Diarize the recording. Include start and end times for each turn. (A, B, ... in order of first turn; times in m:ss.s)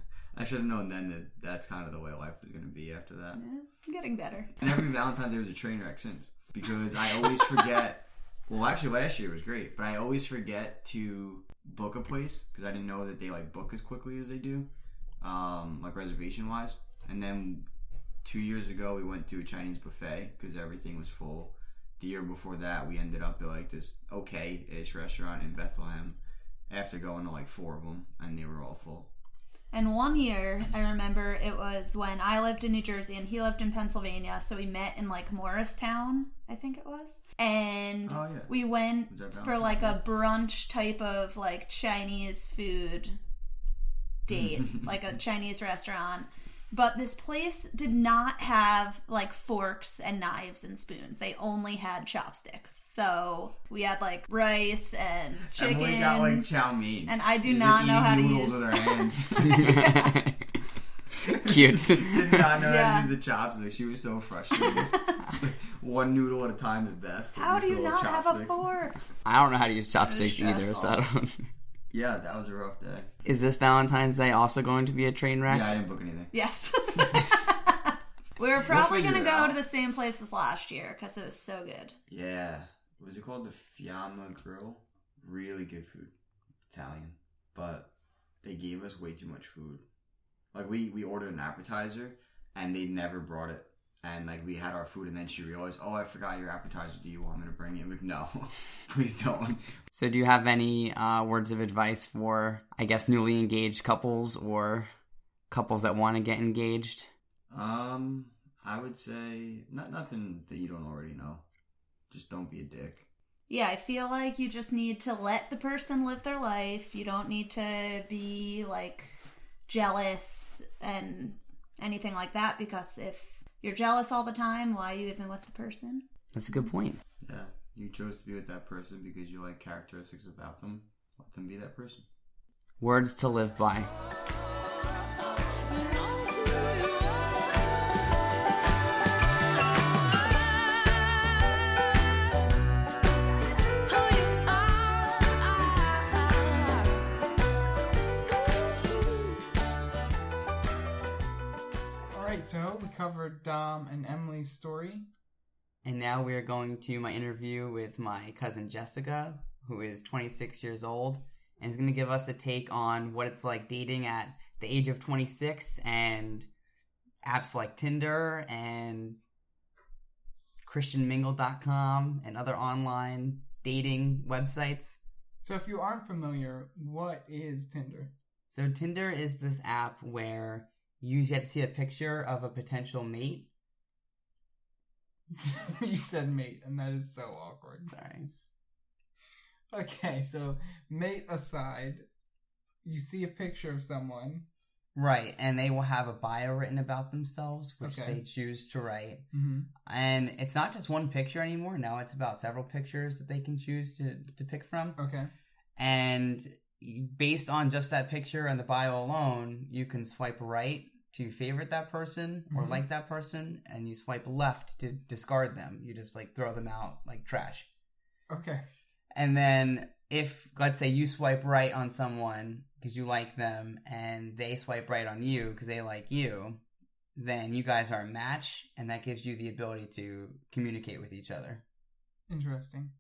0:00.3-0:03.4 A
0:03.4-0:04.7 B
0:04.6-0:14.7 A
0:15.2-0:17.7 A
0:18.2-0:29.1 A
0:29.7-0:43.2 B
0:38.1-0:38.5 A
0:39.1-0:40.0 A
0:44.2-0:56.5 B
0:55.5-0:59.9 A
0:57.0-1:00.1 B
0:59.5-1:00.5 C
1:01.3-1:02.5 C
1:01.5-1:08.6 A
1:02.5-1:03.1 B
1:04.5-1:05.2 B
1:07.4-1:09.0 B
1:09.2-1:11.5 C
1:10.1-1:11.0 B
1:11.9-1:13.1 A
1:13.2-1:15.7 C
1:15.5-1:16.3 A
1:16.3-1:22.0 B
1:18.6-1:19.6 A
1:22.1-1:26.1 A
1:26.7-1:27.9 A
1:28.4-1:29.8 A
1:30.5-1:39.7 A
1:39.9-1:44.9 C
1:45.5-1:47.1 C
1:47.5-1:51.4 A
1:52.1-1:53.1 A
1:53.5-2:06.0 B
2:06.3-2:07.0 C
2:07.2-2:12.0 A
2:12.8-2:13.9 C
2:15.2-2:18.0 D
2:20.1-2:22.0 D
2:23.8-2:27.2 D
2:28.4-2:29.4 D
2:32.1-2:35.1 E
2:35.8-2:46.5 C
2:47.2-2:49.2 C
2:50.6-2:55.0 C
2:55.4-2:58.1 E
2:58.5-3:03.5 C
3:05.4-3:08.0 E
3:07.9-3:08.3 C
3:09.7-3:12.0 E
3:12.8-3:14.4 E
3:15.0-3:19.3 C
3:17.8-3:18.2 E
3:19.3-3:19.7 E
3:19.8-3:25.0 C
3:25.0-3:25.3 E
3:25.8-3:37.7 C
3:32.5-3:32.8 E
3:38.3-3:38.6 E
3:39.1-3:46.6 C
3:47.2-3:51.6 C
3:52.3-3:52.9 E